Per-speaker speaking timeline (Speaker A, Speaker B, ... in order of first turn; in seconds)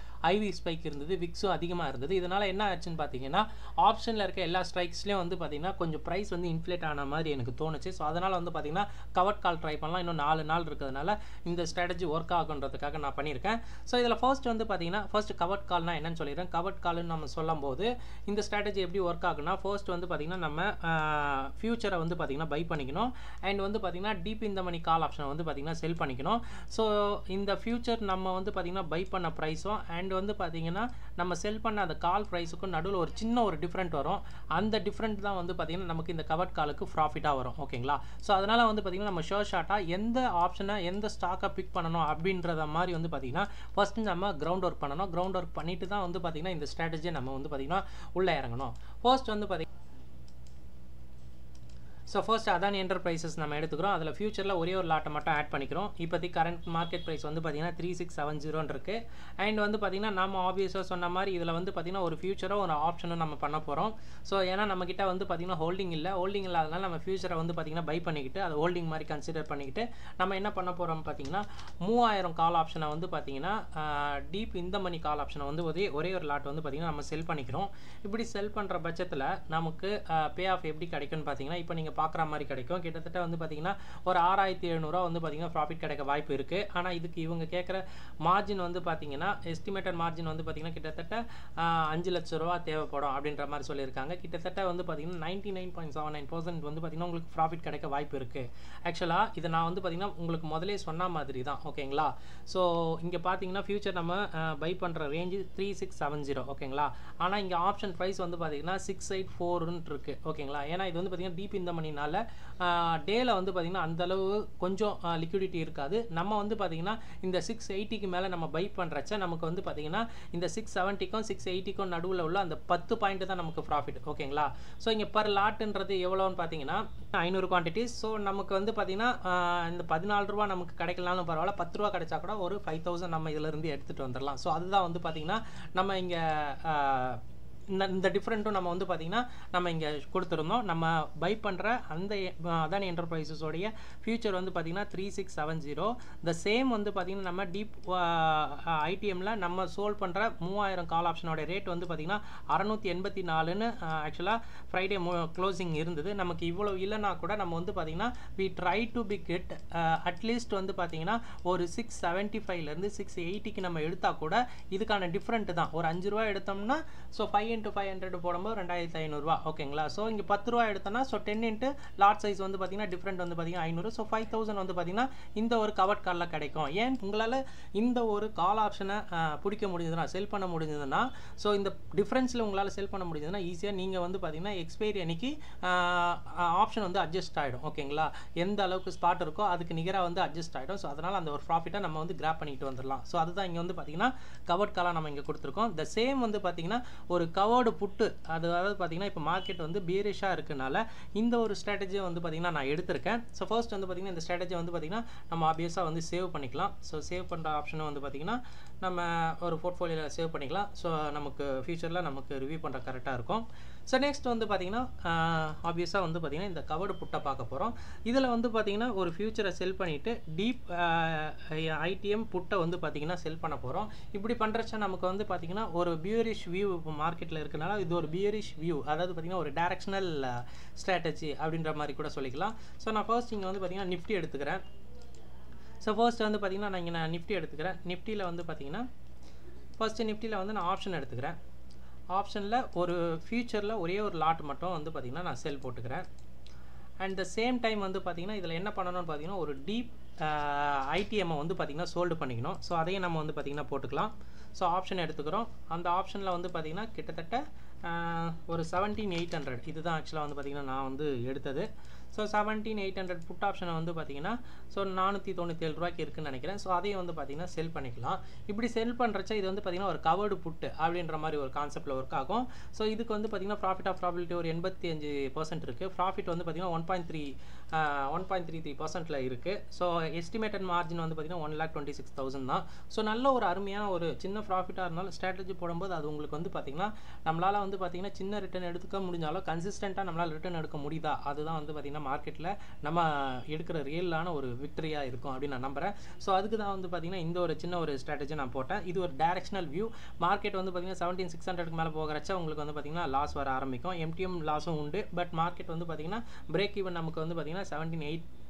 Speaker A: 0.2-49.7, 52.1-234.6, 235.8-238.9, 239.8-241.4, 242.1-246.1, 247.0-308.3